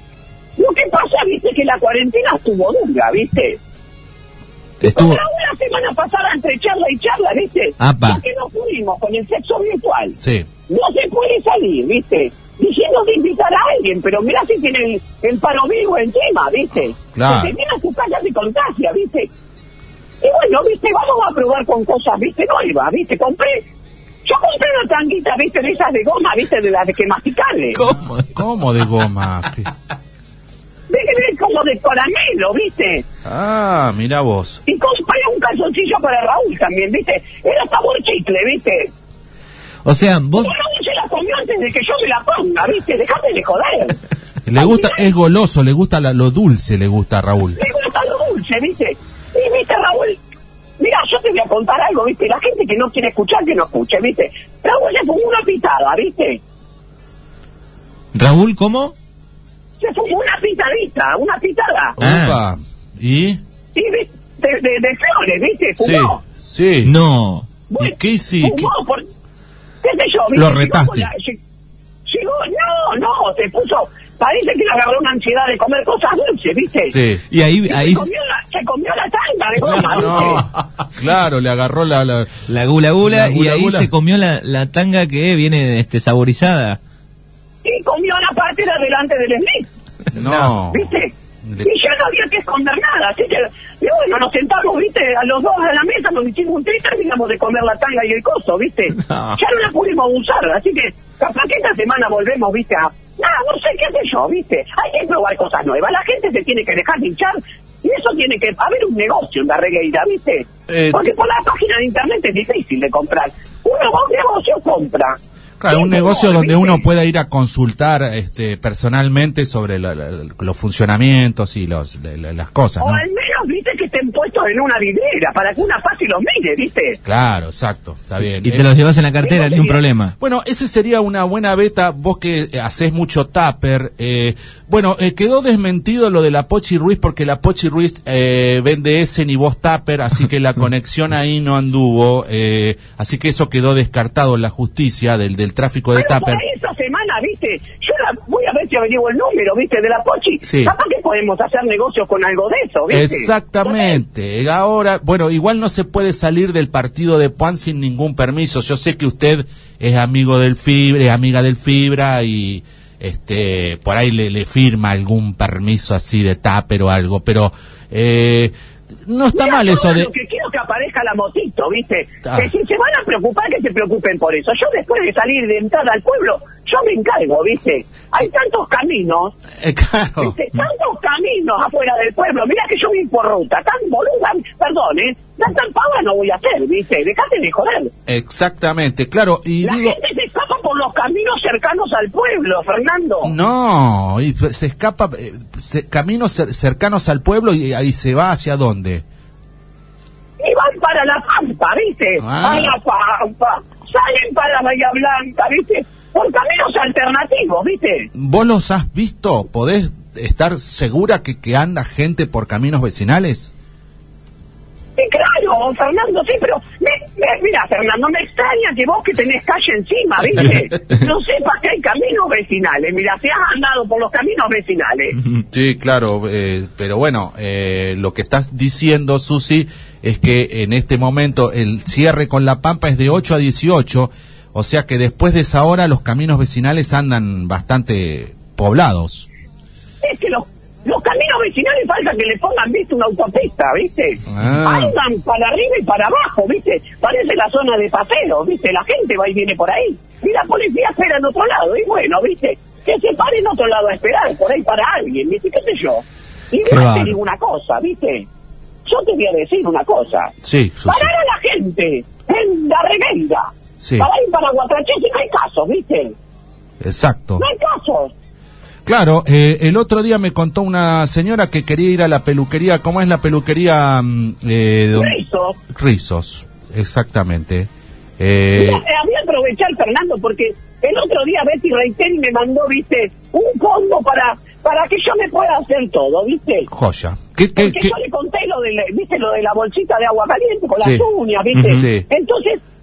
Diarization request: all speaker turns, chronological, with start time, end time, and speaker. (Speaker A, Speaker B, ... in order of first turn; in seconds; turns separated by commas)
Speaker A: 0.6-3.6, Speaker B: 4.8-5.2, Speaker A: 4.9-10.2, Speaker B: 7.8-8.2, Speaker C: 10.2-10.5, Speaker A: 10.7-19.3, Speaker C: 17.1-17.6, Speaker A: 20.2-23.6, Speaker A: 24.2-27.8, Speaker B: 27.7-28.4, Speaker C: 28.3-29.7, Speaker A: 30.9-33.0, Speaker C: 33.2-34.6, Speaker A: 34.7-38.9, Speaker B: 39.8-40.5, Speaker A: 40.4-44.0, Speaker C: 44.5-47.6, Speaker A: 44.5-45.1, Speaker A: 47.6-50.2, Speaker A: 50.8-56.4, Speaker B: 58.1-58.9, Speaker A: 59.8-62.0, Speaker C: 62.0-63.4, Speaker B: 62.0-62.4, Speaker A: 63.7-66.2, Speaker C: 65.8-66.9, Speaker B: 66.8-67.5, Speaker A: 67.7-69.0, Speaker C: 67.8-68.7, Speaker A: 69.8-71.3, Speaker C: 70.3-71.1, Speaker A: 72.0-77.0, Speaker C: 76.9-77.2, Speaker B: 77.3-78.0, Speaker A: 77.7-80.4, Speaker C: 79.9-82.5, Speaker B: 80.1-80.4, Speaker B: 82.5-86.8, Speaker C: 83.0-83.9, Speaker A: 87.6-89.7, Speaker C: 90.1-91.7, Speaker A: 90.7-115.2, Speaker B: 99.0-99.3, Speaker C: 110.7-111.1, Speaker C: 115.6-123.0, Speaker A: 115.7-116.8, Speaker A: 122.8-127.0, Speaker C: 127.0-128.7, Speaker B: 128.2-130.1, Speaker A: 129.2-129.8, Speaker C: 130.2-146.4, Speaker A: 145.9-154.0, Speaker C: 150.4-150.7, Speaker C: 152.9-168.5, Speaker C: 169.1-170.1, Speaker A: 169.3-179.3, Speaker C: 179.6-180.3, Speaker A: 180.2-187.9, Speaker C: 188.1-190.0, Speaker A: 189.6-193.3, Speaker C: 193.2-199.0, Speaker A: 200.4-208.1, Speaker C: 202.2-202.8, Speaker C: 208.1-213.5, Speaker A: 215.0-225.2, Speaker C: 225.5-239.3, Speaker A: 240.0-258.2, Speaker C: 244.3-244.9, Speaker B: 256.7-257.1, Speaker A: 258.9-260.3, Speaker C: 260.4-261.1, Speaker A: 260.9-266.1, Speaker C: 263.8-264.1, Speaker C: 266.8-267.4, Speaker A: 267.4-268.1, Speaker C: 268.9-275.2, Speaker A: 274.9-275.6, Speaker C: 275.7-278.8, Speaker A: 278.5-286.7, Speaker C: 286.7-287.9, Speaker A: 287.6-292.6, Speaker C: 290.8-292.1